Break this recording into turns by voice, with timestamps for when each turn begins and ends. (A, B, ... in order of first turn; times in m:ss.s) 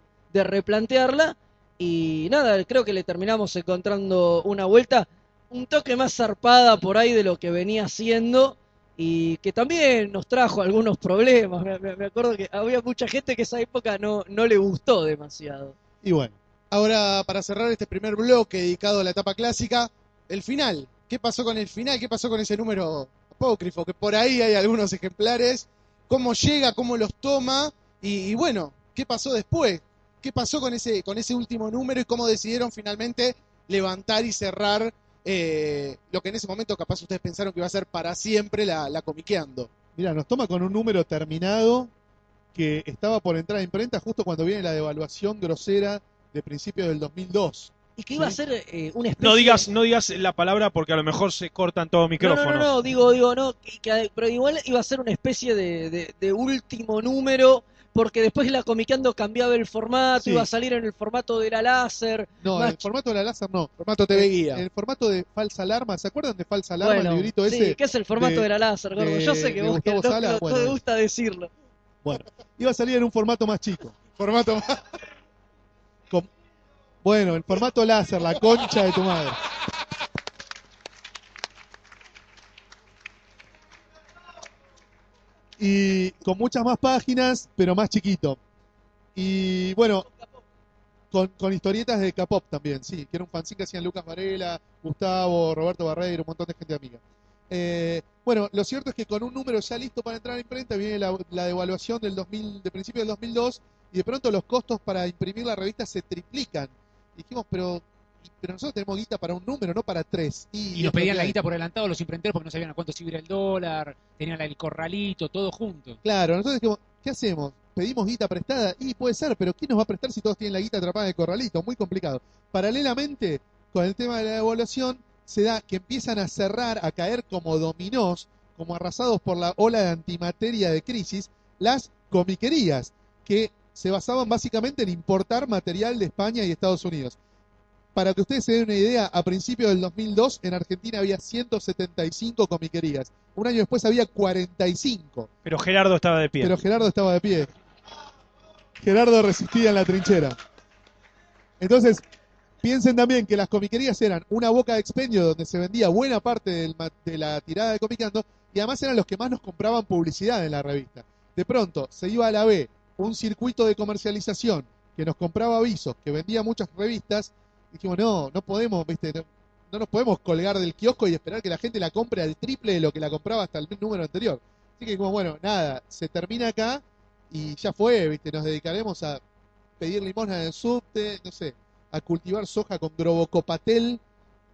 0:00.3-0:15.8 A
0:16.0-0:16.4 B
0:16.7-0:39.7 C
0:39.9-0:41.9 B
0:42.6-0:48.4 B
0:48.0-0:49.7 A
0:49.2-0:52.7 D
0:52.2-1:02.8 A
1:00.2-1:00.5 B
1:02.4-1:10.8 B
1:03.8-1:04.6 C
1:06.8-1:11.5 A
1:12.0-1:14.0 B
1:14.2-1:14.8 C
1:17.0-1:19.4 B
1:25.6-1:28.4 B
1:29.2-1:30.1 B
1:31.1-1:51.4 B
1:50.7-1:56.0 E
1:56.0-2:17.2 B
2:18.0-2:25.3 B
2:25.4-2:26.6 D
2:26.4-2:27.5 B
2:28.8-2:30.4 B
2:31.6-2:32.0 B
2:32.6-2:59.2 B
2:59.8-3:04.0 B